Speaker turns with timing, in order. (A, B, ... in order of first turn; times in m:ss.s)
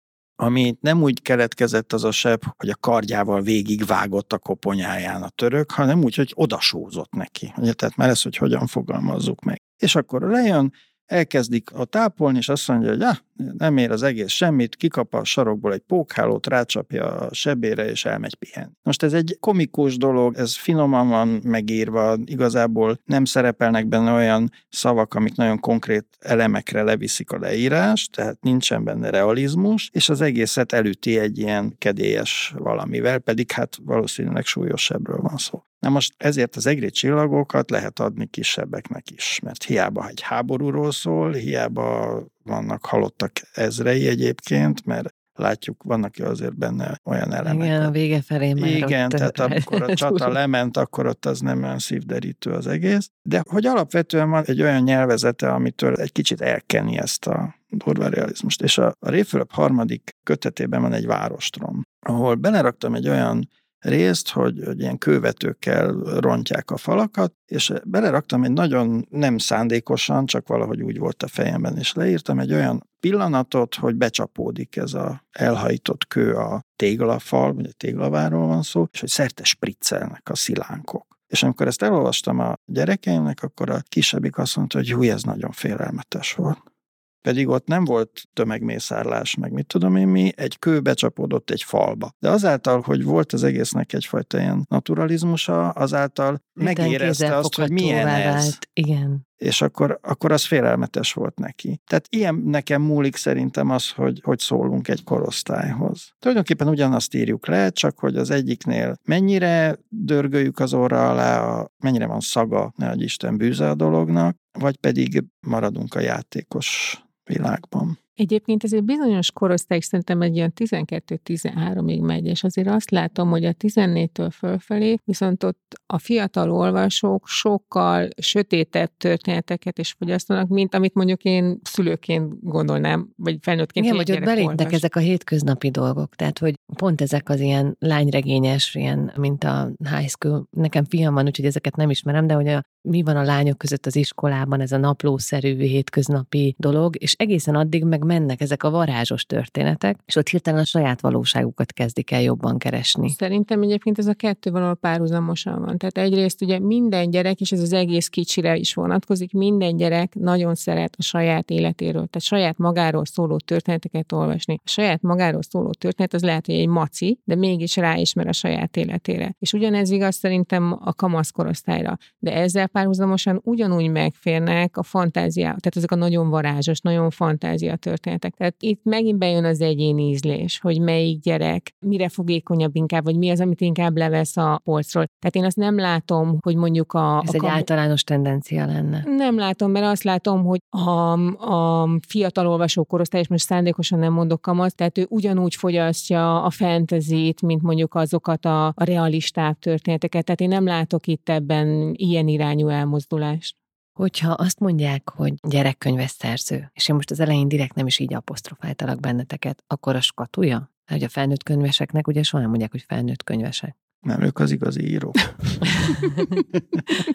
0:00.4-0:47.9 A
0:47.4-0:50.4 B
0:48.6-1:26.6 A
1:27.2-1:38.6 A
1:36.6-1:39.2 B
1:39.4-1:58.0 A
1:58.2-2:14.8 C
2:13.8-2:33.2 B
2:33.1-3:07.7 C
3:07.2-3:09.1 B
3:09.0-3:23.6 C
3:24.0-3:33.7 B
3:34.0-3:35.9 A
3:35.7-3:36.3 B
3:36.6-3:36.8 A